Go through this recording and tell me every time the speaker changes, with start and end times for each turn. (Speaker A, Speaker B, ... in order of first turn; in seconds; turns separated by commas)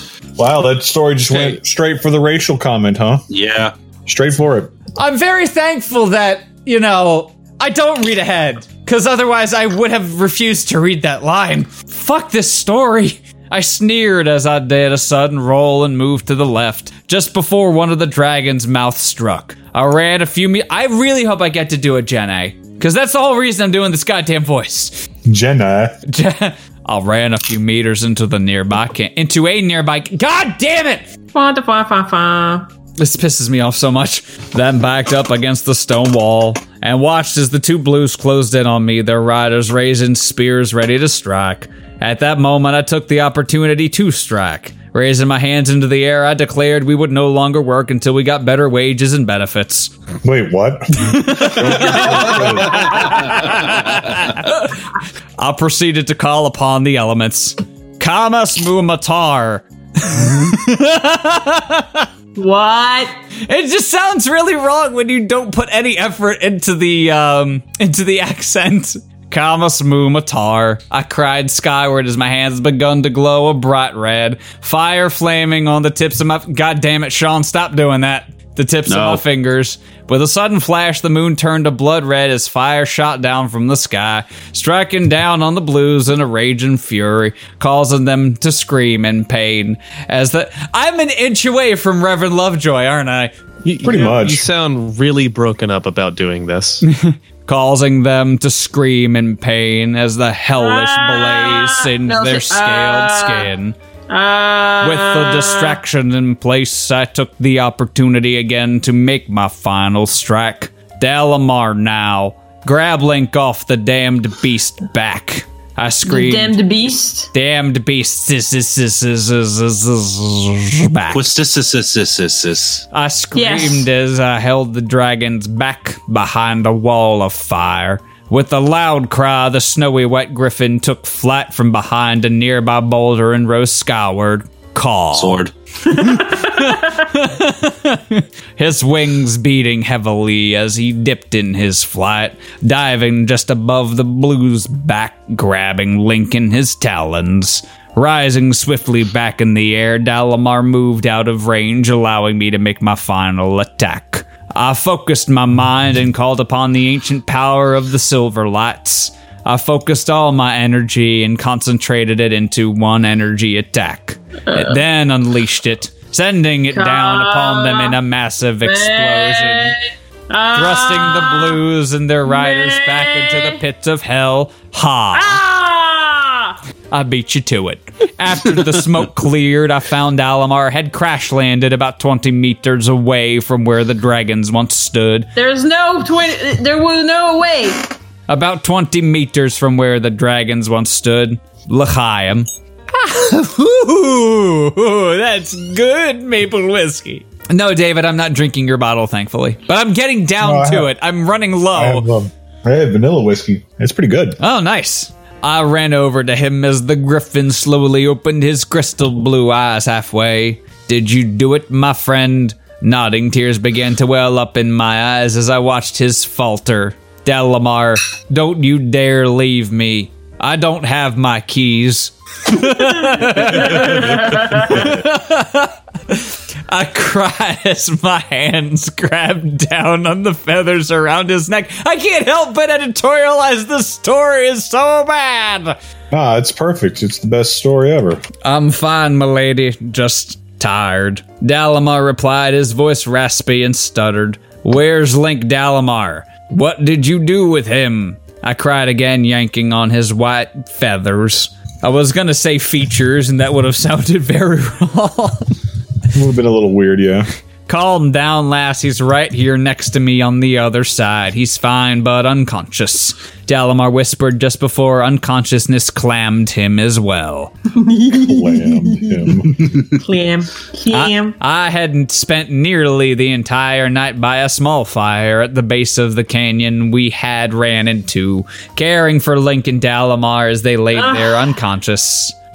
Speaker A: 0.4-3.3, Speaker B: 3.3-3.7, Speaker A: 4.1-4.7, Speaker C: 5.0-25.0, Speaker A: 25.3-26.0, Speaker C: 26.1-31.1, Speaker D: 31.3-32.7, Speaker C: 33.0-49.9, Speaker A: 50.2-53.2, Speaker C: 51.1-54.8, Speaker C: 55.4-62.1, Speaker D: 62.4-63.1, Speaker C: 63.5-93.3, Speaker B: 78.9-79.2, Speaker E: 93.6-96.8, Speaker A: 93.8-94.5, Speaker C: 96.8-103.8, Speaker D: 100.6-103.5, Speaker D: 104.1-105.8, Speaker C: 104.8-116.6, Speaker D: 116.1-117.3, Speaker C: 117.3-121.3, Speaker B: 121.1-122.8, Speaker C: 122.9-135.4, Speaker D: 123.3-123.9, Speaker B: 135.1-135.5, Speaker D: 135.9-136.7, Speaker C: 136.0-169.8, Speaker D: 164.5-164.8, Speaker D: 166.7-168.0, Speaker D: 168.7-169.8, Speaker D: 170.3-171.6, Speaker C: 170.5-175.4, Speaker D: 172.3-173.6, Speaker D: 175.1-176.6, Speaker C: 176.9-185.3, Speaker D: 185.4-187.9, Speaker C: 188.3-202.1, Speaker A: 200.4-200.9, Speaker A: 201.7-204.4, Speaker C: 204.4-235.8, Speaker D: 223.1-224.7, Speaker A: 236.1-238.2, Speaker C: 238.4-255.5, Speaker A: 256.1-257.3, Speaker C: 257.7-267.5, Speaker D: 267.7-269.3, Speaker A: 268.2-269.5, Speaker D: 270.0-271.4, Speaker C: 270.9-282.4, Speaker D: 280.9-281.5